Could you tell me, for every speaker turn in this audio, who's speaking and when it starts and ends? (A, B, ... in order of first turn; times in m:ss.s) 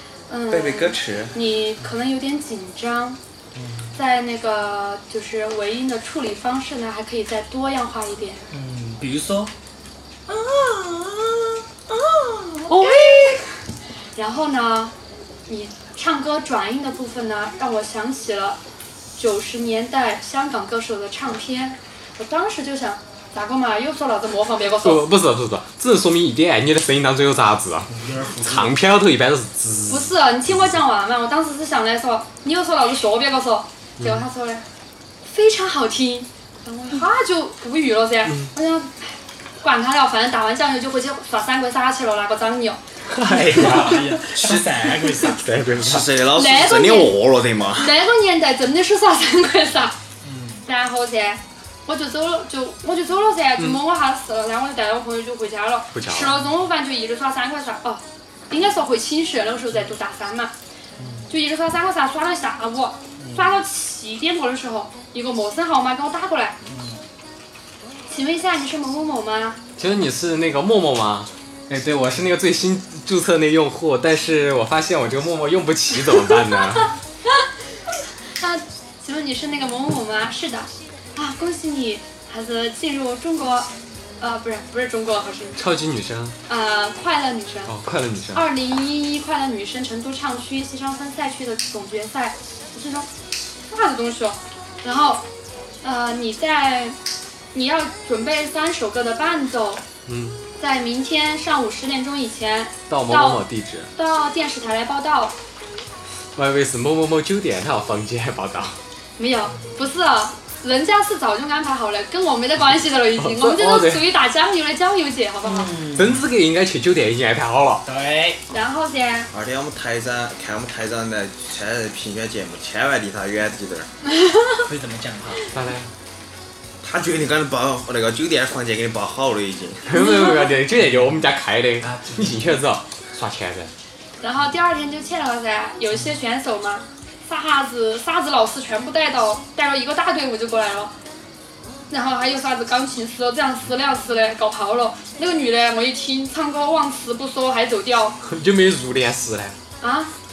0:00.3-0:03.2 A
0:00.5-0:01.4 B
0:03.6-0:04.0 C
0:04.0-0:08.4 A
0:08.5-0:09.5 C
0:10.3-0:12.6 C
0:12.7-0:13.4 A
0:14.2-0:14.9 A
0:15.5-0:18.6 A
0:19.2-0:25.0 A
0:24.8-0:30.1 D
0:27.9-0:28.8 C
0:29.9-0:34.6 A
0:34.0-0:34.2 D
0:35.3-0:42.8 A
0:43.1-0:44.0 D
0:43.3-0:45.4 C
0:44.3-0:44.6 B
0:45.4-0:46.1 D
0:45.8-0:47.9 B
0:46.3-0:47.2 A
0:47.7-0:50.0 A
0:50.2-0:50.6 C
0:50.7-1:00.5 A
0:55.9-0:56.3 D
1:01.0-1:01.3 C
1:01.3-1:06.6 A
1:03.2-1:03.6 C
1:06.6-1:07.0 C
1:08.1-1:09.6 A
1:09.8-1:16.9 D
1:18.4-1:23.7 A
1:24.2-1:25.6 A
1:25.6-1:26.4 D
1:26.5-1:27.8 A
1:27.7-1:28.5 D
1:28.3-1:33.1 A
1:33.7-1:35.3 A
1:35.8-1:37.0 A
1:37.5-1:39.8 A
1:40.1-1:40.4 D
1:40.6-1:45.4 A
1:42.9-1:43.9 D
1:46.4-1:48.8 D
1:49.2-1:55.7 A
1:53.2-1:54.1 D
1:55.4-1:56.3 C
1:56.0-1:57.8 D
1:57.8-1:58.4 C
1:58.5-1:59.3 A
1:59.3-2:03.9 B
2:04.6-2:05.4 C
2:05.5-2:05.9 D
2:06.8-2:09.9 B
2:09.9-2:13.7 D
2:09.9-2:10.5 A
2:10.8-2:11.2 C
2:11.8-2:12.6 C
2:14.2-2:20.9 A
2:21.9-2:28.2 A
2:28.2-2:29.6 D
2:29.8-2:30.1 A